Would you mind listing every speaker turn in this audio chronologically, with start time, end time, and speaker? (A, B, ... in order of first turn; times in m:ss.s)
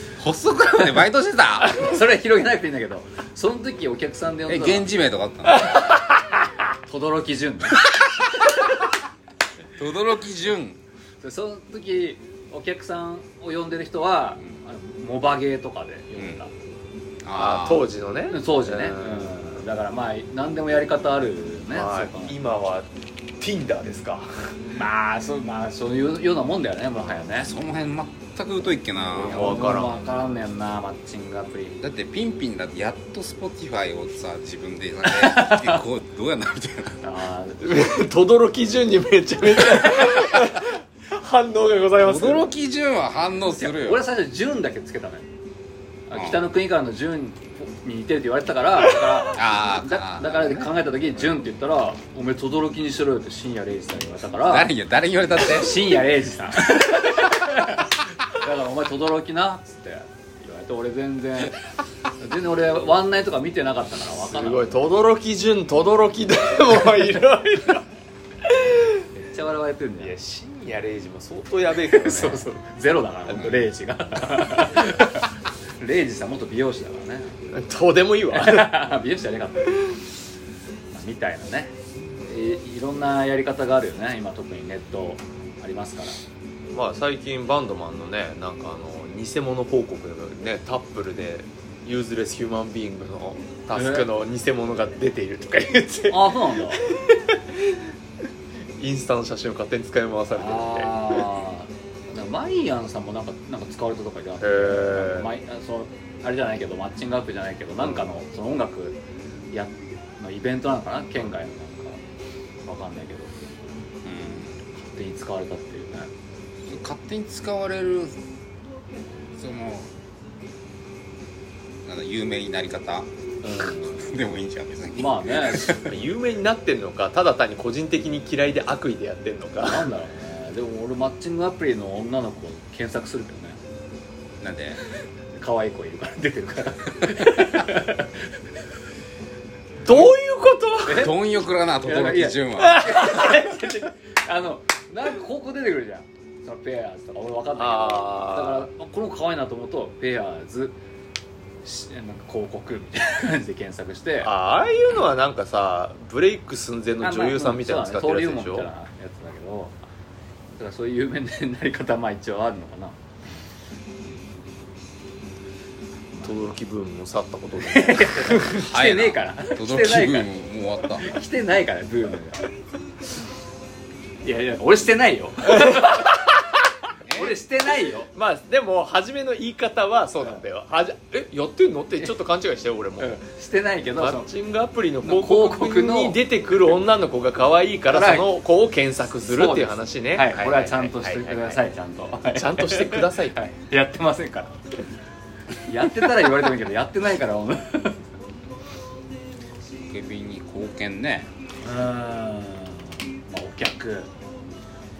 0:00.2-0:01.8 A
0:01.6-0:04.9 B
0:04.5-0:05.8 A
0:05.5-0:06.0 C
0:06.8-0:07.8 B
0:09.8-0:10.8 A
0:11.2-0:16.5 B
0:17.2-0:17.9 A
0:17.3-0:19.5 C
0:18.3-0:22.4 B
0:21.7-0:22.9 C
0:23.4-0:24.6 C
0:24.7-0:27.5 B
0:27.2-0:30.1 A
0:29.1-0:31.8 B
0:29.1-0:30.0 C
0:31.8-0:37.0 A
0:35.1-0:35.8 B
0:37.0-0:37.8 B
0:37.6-0:42.5 C
0:42.0-0:44.0 A
0:43.5-0:45.3 B
0:46.1-0:54.7 B
0:46.1-0:46.4 A
0:49.3-0:50.7 A
0:54.4-0:55.9 A
0:55.4-1:01.6 B
1:02.2-1:04.8 B
1:04.3-1:07.9 C
1:08.5-1:08.8 C
1:09.1-1:10.1 B
1:10.0-1:12.4 C
1:11.9-1:17.3 B
1:13.3-1:13.6 A
1:17.5-1:18.9 C
1:18.3-1:19.9 B
1:20.9-1:26.2 B
1:26.7-1:37.8 C
1:33.7-1:34.1 B
1:36.1-1:36.8 B
1:38.8-1:41.2 C
1:40.3-1:49.0 B
1:44.4-1:45.3 C
1:49.5-1:52.0 B
1:52.6-1:53.4 B
1:54.0-1:54.6 A
1:54.8-1:56.1 B
1:56.6-1:58.2 A
1:59.3-1:59.9 A
2:01.8-2:05.9 A
2:03.4-2:04.1 B
2:05.0-2:05.9 B
2:05.8-2:09.9 C
2:09.6-2:13.6 B
2:14.4-2:14.8 A
2:15.3-2:18.3 B
2:19.8-2:21.1 C
2:20.8-2:21.2 B
2:20.9-2:23.0 A
2:21.8-2:30.8 B
2:22.6-2:23.4 C
2:27.6-2:28.7 C
2:31.6-2:34.3 B
2:34.2-2:38.7 C
2:37.0-2:39.8 B
2:40.6-2:43.0 B
2:46.2-2:48.6 C
2:47.6-2:50.3 B
2:48.6-2:51.1 A
2:51.0-2:52.5 B
2:54.2-2:56.3 B
2:55.6-2:56.0 C
2:57.0-2:57.4 A
2:57.1-2:58.1 B
2:58.1-3:03.1 C
3:03.0-3:04.3 B
3:04.0-3:11.6 C
3:05.0-3:06.2 B
3:07.9-3:08.3 B
3:09.3-3:14.6 B
3:12.3-3:13.4 C
3:15.7-3:18.0 B
3:19.8-3:21.3 A
3:21.6-3:24.1 B